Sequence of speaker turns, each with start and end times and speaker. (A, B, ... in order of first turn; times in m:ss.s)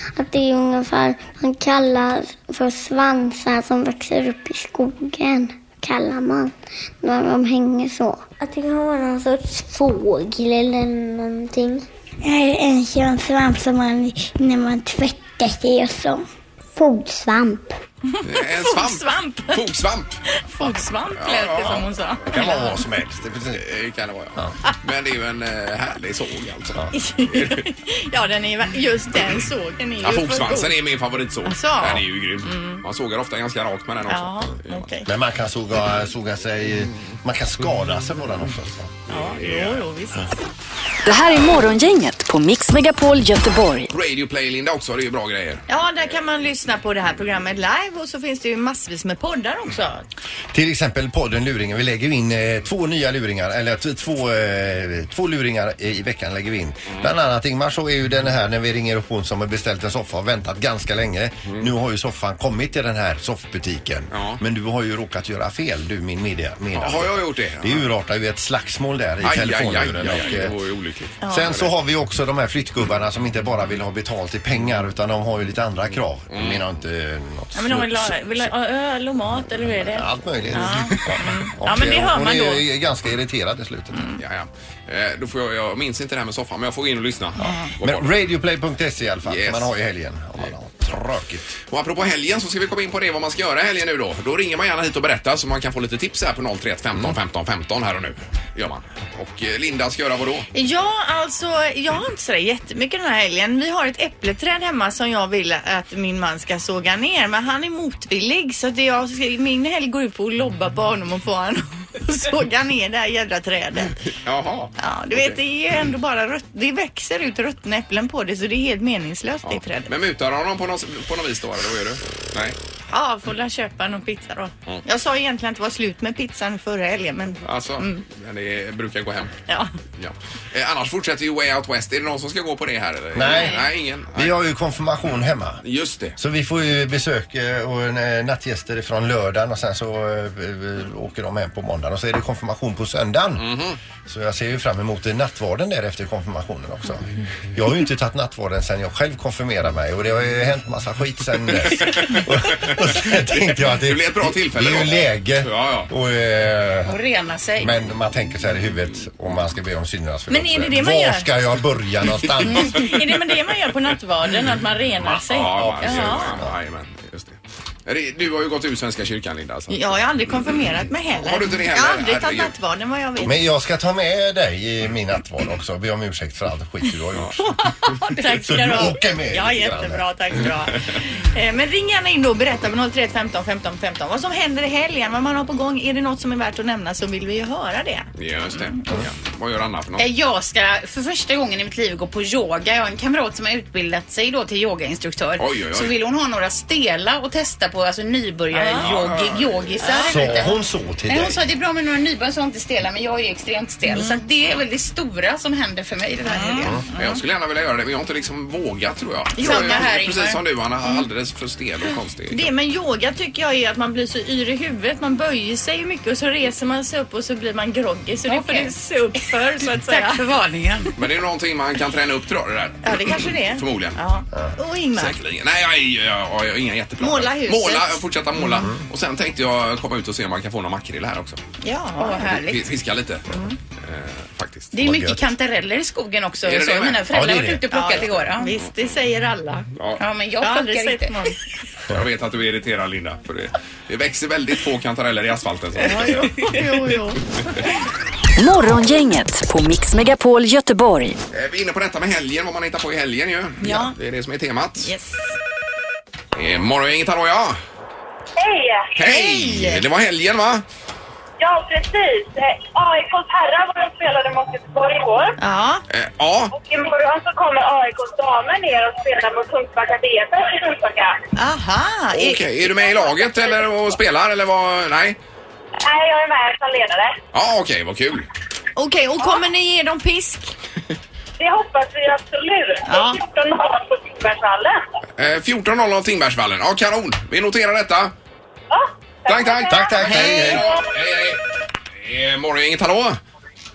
0:00.2-0:17.8 A
0:18.2-0:19.6 B
0:18.2-0:20.2 C
0:20.4-0:22.8 B
0:21.1-0:21.9 C
0:22.3-0:23.6 D
0:23.5-0:27.6 C
0:26.9-0:30.7 B
0:30.0-0:34.9 C
0:31.4-0:32.8 B
0:34.1-0:35.1 B
0:35.0-0:38.9 D
0:39.1-0:39.8 C
0:39.1-0:40.3 B
0:41.0-0:43.9 E
0:43.9-0:45.6 C
0:45.7-0:50.0 B
0:50.5-1:10.6 D
1:04.1-1:04.4 C
1:06.7-1:07.9 C
1:09.2-1:11.7 C
1:11.2-1:11.6 B
1:11.2-1:18.5 D
1:16.3-1:16.6 C
1:17.5-1:22.6 B
1:19.8-1:24.1 D
1:24.2-1:28.1 C
1:27.4-1:27.7 B
1:27.5-1:31.5 D
1:29.2-1:29.7 C
1:31.7-1:40.5 C
1:40.5-1:54.0 B
1:54.2-1:55.4 C
1:54.8-1:59.9 B
1:59.4-2:02.6 C
2:02.9-2:08.0 B
2:07.4-2:09.3 C
2:10.0-2:14.3 C
2:13.1-2:15.6 D
2:13.3-2:13.6 B
2:15.6-2:16.2 C
2:16.2-2:23.5 D
2:23.4-2:23.8 C
2:24.0-2:37.0 D
2:31.6-2:35.9 C
2:36.8-2:37.7 F
2:37.6-2:42.9 D
2:40.3-2:41.3 B
2:42.4-2:46.3 B
2:45.0-2:50.6 C
2:45.5-2:46.5 D
2:49.7-2:53.4 B
2:51.2-2:52.5 C
2:53.2-2:57.5 D
2:57.4-3:08.7 B
2:58.3-3:00.1 D
3:08.2-3:10.0 C
3:10.0-3:20.5 F
3:15.4-3:15.9 C
3:18.5-3:18.9 B
3:18.8-3:19.8 C
3:19.8-3:20.5 B
3:20.1-3:21.4 D
3:21.1-3:26.8 F
3:23.9-3:24.2 B
3:26.2-3:27.2 B
3:27.0-3:32.5 C
3:29.4-3:30.2 B
3:29.4-3:30.4 F
3:32.3-3:40.9 B
3:38.3-3:38.7 F
3:39.8-3:40.9 F
3:41.0-3:44.0 C
3:42.8-3:45.2 B
3:44.9-3:51.4 C
3:47.0-3:48.7 B
3:51.6-3:52.4 B
3:52.0-3:52.6 F
3:52.3-3:53.2 C
3:53.8-3:54.7 C
3:54.7-3:58.5 F
3:54.8-3:55.2 D
3:56.4-3:57.0 C
3:57.1-3:57.7 D
3:57.7-3:59.7 B
3:59.8-4:00.0 C
4:00.0-4:01.2 F
4:00.4-4:01.4 B
4:01.9-4:06.7 C
4:05.8-4:07.2 B
4:08.4-4:11.2 E
4:11.3-4:14.9 C
4:13.6-4:13.9 B
4:14.8-4:15.4 B
4:16.3-4:17.6 C
4:18.4-4:19.0 G
4:19.0-4:20.6 C
4:19.0-4:19.8 B
4:21.4-4:25.4 G
4:25.4-4:25.8 B
4:25.9-4:26.5 C
4:26.5-4:31.2 G
4:31.4-4:32.4 B
4:32.1-4:35.2 C
4:32.9-4:33.6 G
4:35.8-4:37.2 G
4:37.3-4:38.3 C
4:38.8-4:40.5 B
4:41.4-4:44.8 G
4:42.9-4:43.2 B
4:45.2-4:48.1 C
4:48.7-4:50.8 G
4:49.3-4:51.4 C
4:49.7-4:50.7 D
4:50.1-4:50.4 B
4:52.0-4:53.2 C